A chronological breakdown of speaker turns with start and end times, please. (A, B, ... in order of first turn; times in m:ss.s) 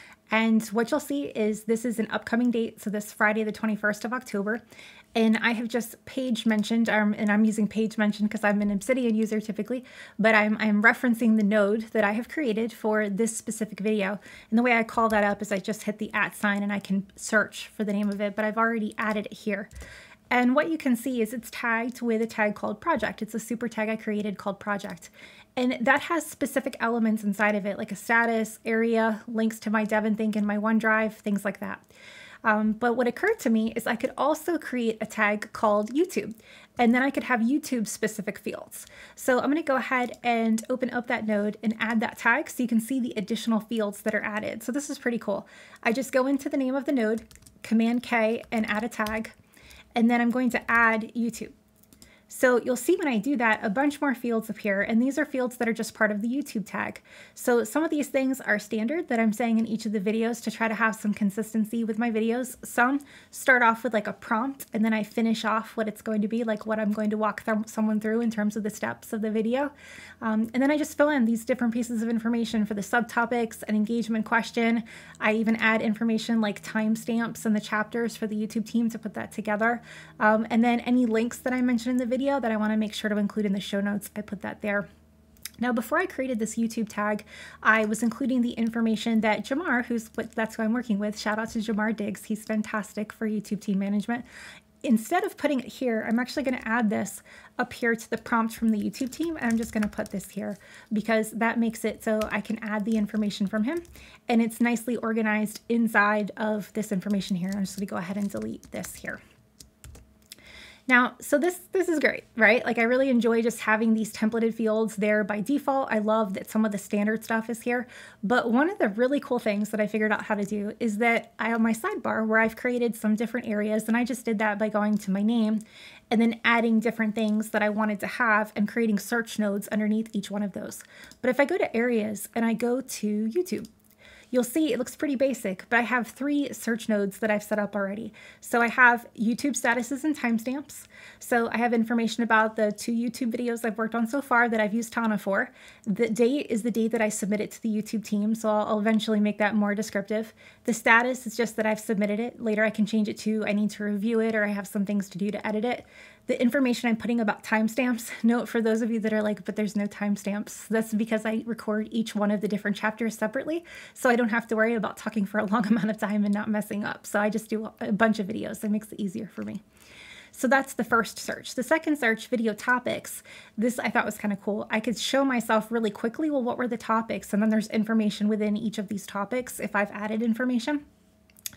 0:00.3-0:04.6 A
0:05.2-0:19.7 A
0:20.3-0:31.9 A
0:32.4-0:49.3 A
0:50.0-0:51.5 A
0:52.3-1:24.9 A
1:25.6-1:34.3 A
1:34.8-1:49.2 A
1:50.9-2:13.7 A
2:14.3-2:49.6 A
2:50.3-3:00.8 A